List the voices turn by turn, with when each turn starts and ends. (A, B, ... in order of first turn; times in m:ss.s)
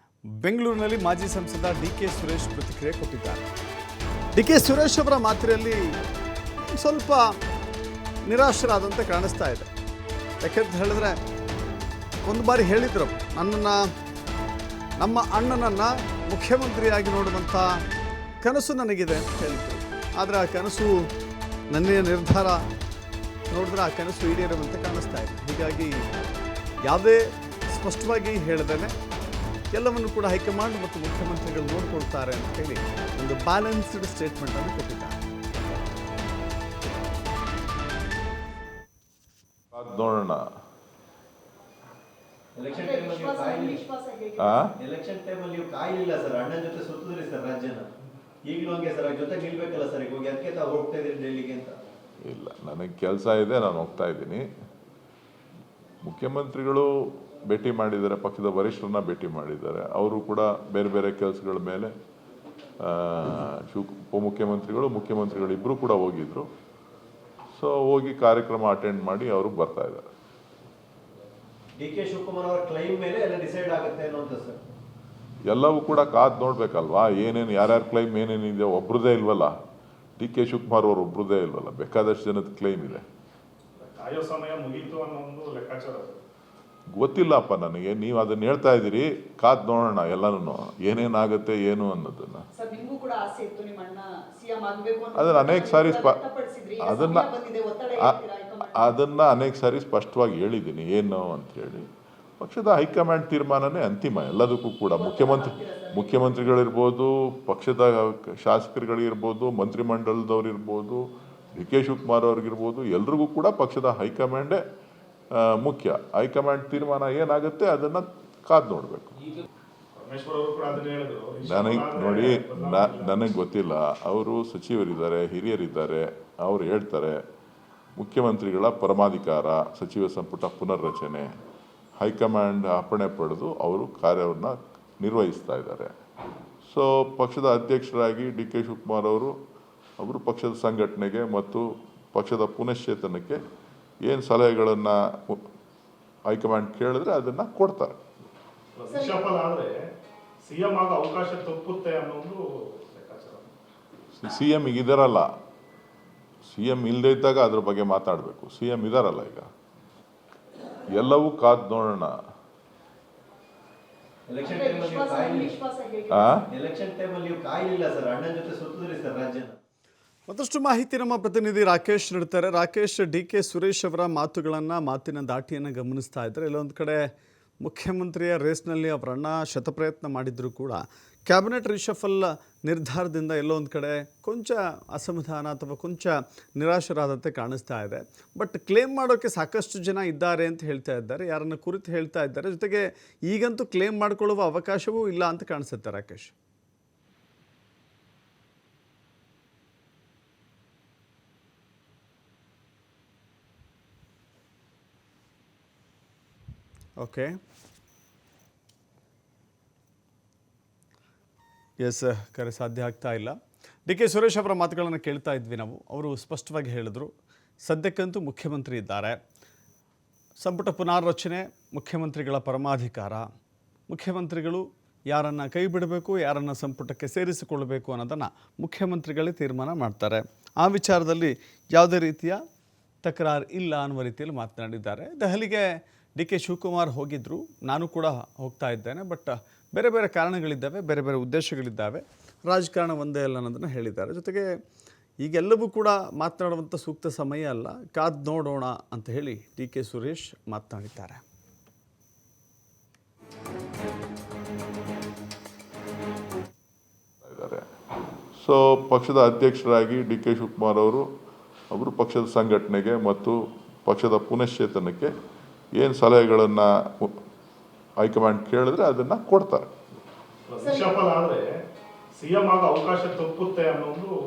0:00.4-0:03.4 A
0:04.3-0:06.0 A
0:06.6-0:07.4 A
0:08.2-0:09.7 A
0:10.4-0:11.2 A
0:12.2-0:13.8 A
0:15.0-0:17.8 A
0:18.4-0:21.1 A
0:21.7-0:22.6 A
0:23.5-0:26.0 A
0:26.8-0:28.9 A
0:29.7-0:35.2 A
0:39.7-0:40.5 B
0:42.6-0:43.8 C
0:42.7-0:44.6 D
0:44.4-0:44.7 B
0:44.8-0:47.9 C
0:48.5-0:51.7 C
0:52.2-0:54.4 B
0:56.0-1:01.9 B
1:02.8-1:06.5 B
1:07.6-1:10.1 B
1:11.8-1:14.6 C
1:15.5-1:19.5 B
1:20.2-1:23.0 B
1:23.8-1:26.2 E
1:26.9-1:32.4 B
1:32.5-1:38.9 D
1:35.1-1:36.2 B
1:36.8-1:37.3 B
1:38.7-1:41.9 B
1:42.4-1:54.6 B
1:44.9-1:46.4 D
1:55.4-1:59.2 B
2:00.0-2:03.1 E
2:01.4-2:07.2 B
2:07.9-2:11.2 B
2:12.0-2:15.9 B
2:16.7-2:19.3 B
2:20.0-2:23.4 B
2:24.0-2:25.4 B
2:26.3-2:28.0 B
2:28.8-2:29.7 E
2:28.9-2:29.2 D
2:30.5-2:32.4 E
2:32.9-2:33.5 E
2:34.1-2:35.3 B
2:36.5-2:39.5 B
2:40.9-2:42.2 B
2:44.3-2:45.6 C
2:44.4-2:46.4 D
2:46.1-2:46.4 B
2:46.5-2:49.6 C
2:50.3-2:57.0 A
2:57.6-3:16.3 A
3:27.0-3:27.4 A
3:31.8-3:37.1 A
3:37.6-3:39.2 A
3:40.4-3:43.2 A
3:43.9-3:52.4 A
3:53.0-4:04.5 A
4:05.2-4:11.2 A
4:17.2-4:17.6 B
4:18.4-4:21.0 B
4:21.7-4:25.1 B
4:25.8-4:27.1 B
4:28.0-4:29.7 B
4:30.5-4:31.4 E
4:30.6-4:30.9 D
4:32.2-4:34.1 E